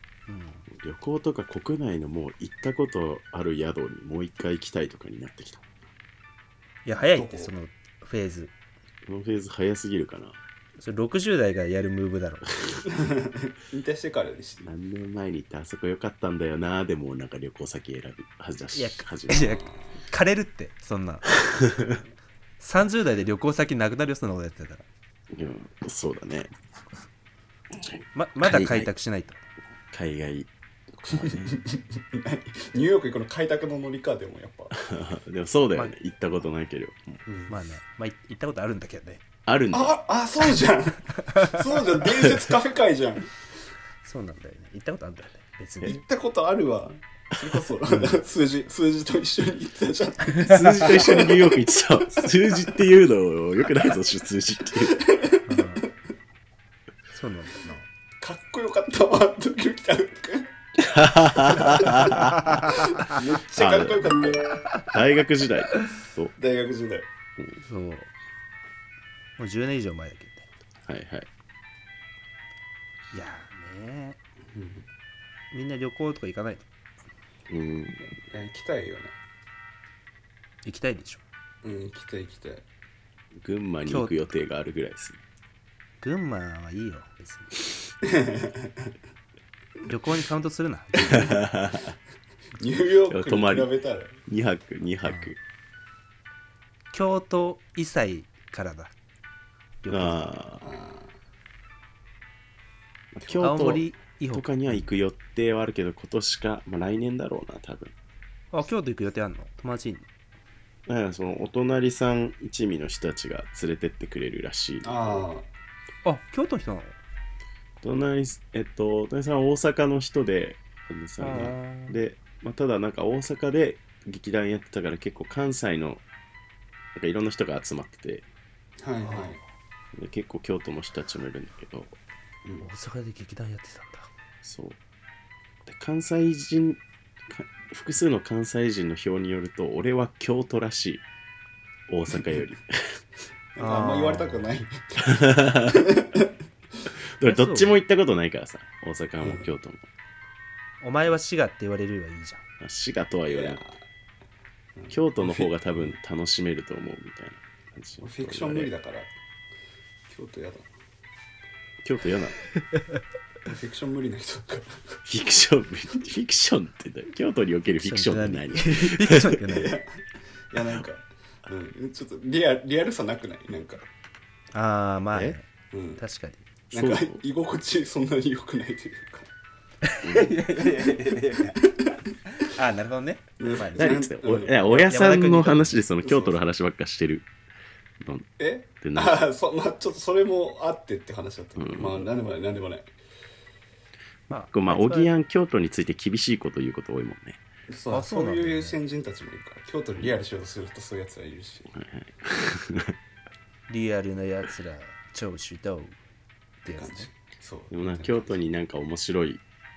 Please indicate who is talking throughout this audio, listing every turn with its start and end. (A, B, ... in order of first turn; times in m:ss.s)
0:00.3-0:00.7 A
0:00.7-0:05.6 B
0:06.8-0:08.5 A
0:07.1-0:07.5 C
0:09.1-0:10.4 B
0:10.8-0:12.8 A
0:12.8-0:14.7 C
0:14.6-0:19.6 B
0:18.7-0:21.4 A
0:19.3-0:20.0 C
0:21.5-0:22.0 B
0:22.6-0:24.9 A
0:25.3-0:26.5 B
0:27.7-0:28.9 B
0:28.1-0:29.4 A
0:29.9-0:31.6 B
0:31.1-0:34.8 C
0:34.8-0:37.2 B
0:37.3-0:37.5 C
0:37.5-0:39.2 A
0:39.5-0:39.9 B
0:39.7-0:43.3 C
0:41.3-0:41.6 A
0:44.0-0:46.0 A
0:45.8-0:51.6 C
0:47.9-0:48.2 A
0:50.4-0:55.0 B
0:50.4-0:50.7 A
0:55.0-0:55.8 C
0:55.5-0:55.9 A
0:57.1-0:57.9 A
0:58.2-1:00.5 C
1:00.8-1:02.8 B
1:01.5-1:04.4 C
1:02.4-1:02.9 A
1:03.6-1:04.1 B
1:04.8-1:06.3 B
1:06.4-1:07.1 C
1:07.6-1:08.1 A
1:09.4-1:10.5 A
1:10.8-1:11.3 B
1:13.1-1:14.2 A
1:14.5-1:14.8 C
1:15.5-1:16.7 A
1:17.5-1:18.1 B
1:18.0-1:19.1 C
1:20.6-1:21.2 A
1:21.6-1:22.6 C
1:23.4-1:25.2 B
1:23.9-1:24.2 A
1:26.0-1:27.5 A
1:28.0-1:28.9 C
1:29.9-1:31.3 A
1:31.0-1:31.9 B
1:32.6-1:34.2 C
1:33.1-1:33.7 B
1:34.3-1:35.4 B
1:35.0-1:35.3 A
1:36.9-1:38.9 A
1:39.8-1:40.3 A
1:39.9-1:40.7 B
1:40.6-1:41.1 C
1:43.1-1:47.9 B
1:43.4-1:44.8 A
1:48.5-1:50.1 A
1:50.9-1:55.3 B
1:54.8-1:55.5 C
1:56.0-1:57.0 A
1:57.8-2:06.0 B
2:01.2-2:02.0 A
2:07.0-2:08.2 B
2:08.8-2:09.4 C
2:09.9-2:12.0 B
2:12.6-2:14.1 A
2:14.4-2:14.8 B
2:15.6-2:21.0 B
2:21.9-2:23.0 B
2:23.6-2:26.3 C
2:23.6-2:24.5 A
2:25.1-2:25.8 B
2:27.2-2:29.9 B
2:27.2-2:27.8 A
2:29.2-2:29.5 C
2:30.8-2:32.4 A
2:32.6-2:33.6 B
2:33.3-2:33.8 C
2:34.8-2:36.0 C
2:34.9-2:38.7 B
2:38.0-2:39.1 C
2:40.1-2:40.7 C
2:41.8-2:42.4 B
2:43.4-2:45.0 C
2:45.1-2:49.4 B
2:47.8-2:49.8 A
2:49.5-2:49.9 C
2:50.5-2:53.9 C
2:54.5-2:56.4 A
2:55.7-2:56.0 C
2:56.7-2:57.2 B
2:56.7-2:59.3 C
2:59.8-3:01.6 A
3:00.0-3:00.4 B
3:01.6-3:02.0 C
3:02.3-3:04.0 A
3:03.4-3:04.9 C
3:03.8-3:07.3 B
3:04.7-3:05.8 A
3:06.0-3:06.4 C
3:08.0-3:08.3 B
3:08.4-3:12.9 C
3:08.8-3:09.3 B
3:11.6-3:12.1 B
3:14.3-3:15.1 A
3:14.5-3:17.4 B
3:17.7-3:21.7 C
3:17.9-3:18.8 A
3:21.7-3:23.0 B
3:23.7-3:26.0 A
3:26.6-3:27.1 A
3:26.7-3:28.4 C
3:27.7-3:29.4 B